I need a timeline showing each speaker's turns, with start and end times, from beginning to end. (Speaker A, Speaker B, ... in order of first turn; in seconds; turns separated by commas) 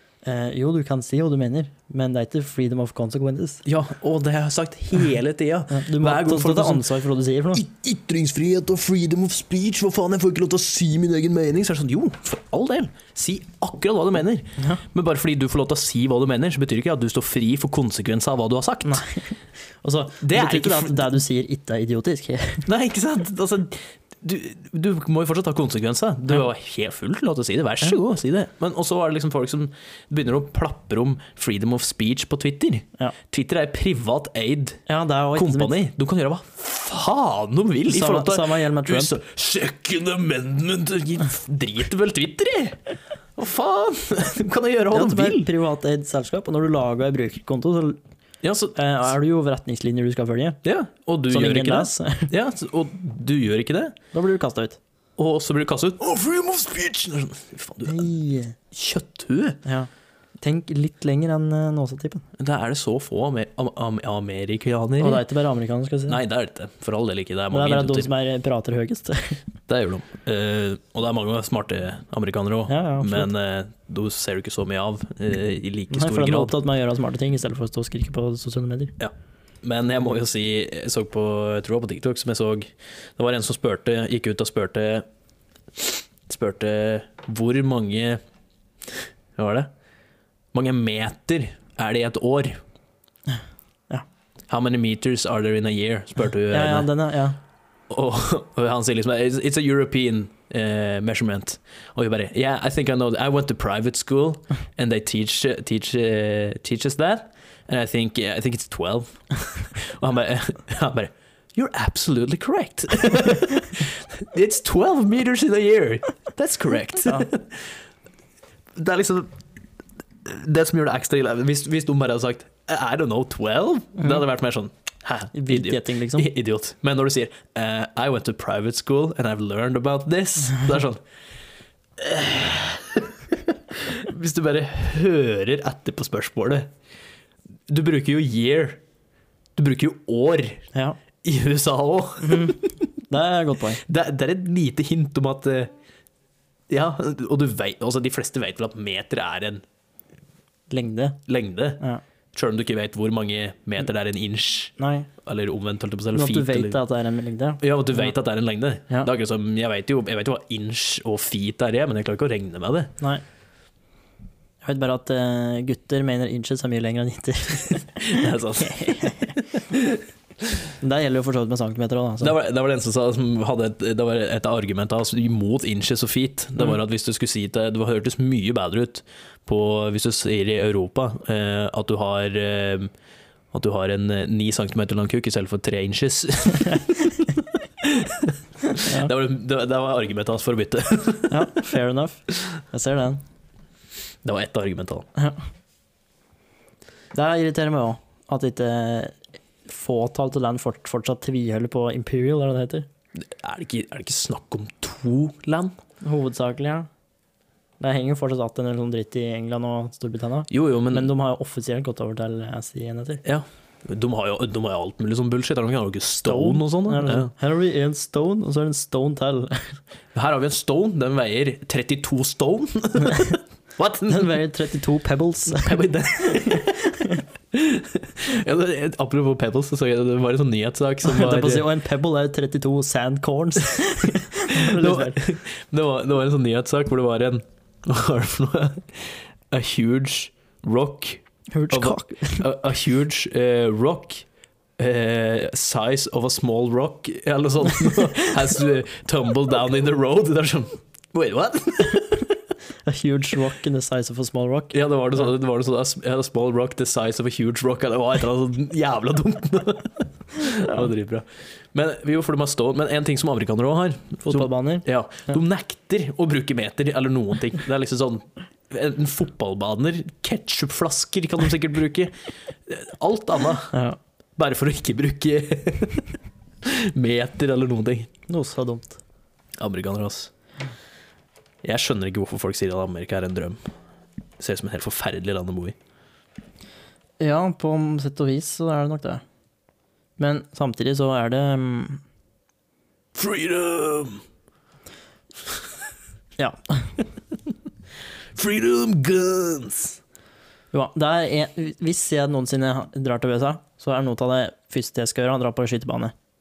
Speaker A: 0.2-3.6, Speaker B: 3.6-6.8, Speaker A: 5.7-7.6, Speaker B: 7.5-19.0, Speaker A: 18.8-22.7, Speaker B: 20.2-21.1, Speaker B: 22.6-34.8, Speaker A: 34.9-35.8, Speaker B: 35.3-42.8, Speaker A: 37.9-39.2, Speaker B: 43.4-45.5, Speaker A: 44.9-48.0, Speaker B: 48.4-48.8, Speaker A: 48.8-50.6, Speaker B: 50.6-54.0, Speaker A: 51.3-52.3, Speaker A: 54.1-54.8, Speaker B: 55.2-58.1, Speaker A: 57.9-58.5, Speaker B: 58.7-59.6, Speaker A: 59.6-62.2, Speaker B: 62.4-65.2, Speaker A: 65.0-66.2, Speaker B: 66.1-68.1, Speaker A: 67.5-69.4, Speaker B: 69.7-76.5, Speaker A: 72.7-73.3, Speaker A: 75.9-78.9, Speaker B: 79.0-85.0, Speaker B: 86.3-88.2, Speaker B: 89.3-89.7, Speaker B: 90.5-92.6, Speaker B: 94.5-96.9, Speaker A: 96.5-97.4, Speaker B: 97.9-117.7, Speaker B: 118.8-119.3, Speaker B: 120.2-131.0, Speaker A: 125.3-126.3, Speaker B: 132.0-133.1, Speaker B: 133.7-136.7, Speaker B: 137.7-138.8, Speaker B: 139.6-140.7, Speaker A: 140.7-141.0, Speaker B: 141.2-142.8, Speaker A: 142.2-143.8, Speaker B: 143.8-145.7, Speaker B: 146.7-149.6, Speaker A: 150.7-151.2, Speaker B: 151.3-151.8, Speaker B: 152.3-156.8, Speaker A: 154.8-155.1, Speaker A: 156.1-158.1, Speaker B: 157.6-162.9, Speaker A: 164.6-169.3, Speaker B: 167.9-170.0, Speaker A: 170.8-172.3, Speaker B: 172.2-182.9, Speaker B: 183.5-187.3, Speaker B: 187.8-191.6, Speaker A: 188.8-189.1, Speaker A: 191.3-193.2, Speaker B: 194.2-195.1, Speaker A: 197.1-202.9, Speaker B: 203.2-205.7, Speaker A: 206.0-206.9, Speaker A: 207.8-213.2, Speaker B: 210.5-211.1, Speaker B: 213.2-217.3, Speaker A: 216.2-219.7, Speaker B: 220.1-224.3, Speaker A: 224.1-227.2, Speaker B: 225.5-226.9, Speaker B: 227.5-231.7, Speaker A: 231.0-235.2, Speaker B: 234.5-244.2, Speaker A: 241.5-242.4, Speaker B: 244.8-252.3, Speaker A: 252.8-255.2, Speaker B: 254.7-273.8, Speaker A: 264.2-265.4, Speaker A: 273.7-274.0, Speaker B: 274.4-276.1, Speaker B: 276.6-278.1, Speaker A: 278.3-279.0, Speaker B: 279.6-280.3, Speaker B: 281.6-283.6, Speaker B: 284.4-285.8, Speaker A: 287.2-289.2, Speaker A: 290.2-292.0, Speaker B: 293.1-294.2, Speaker A: 296.4-296.9, Speaker B: 298.3-300.0, Speaker A: 300.7-306.1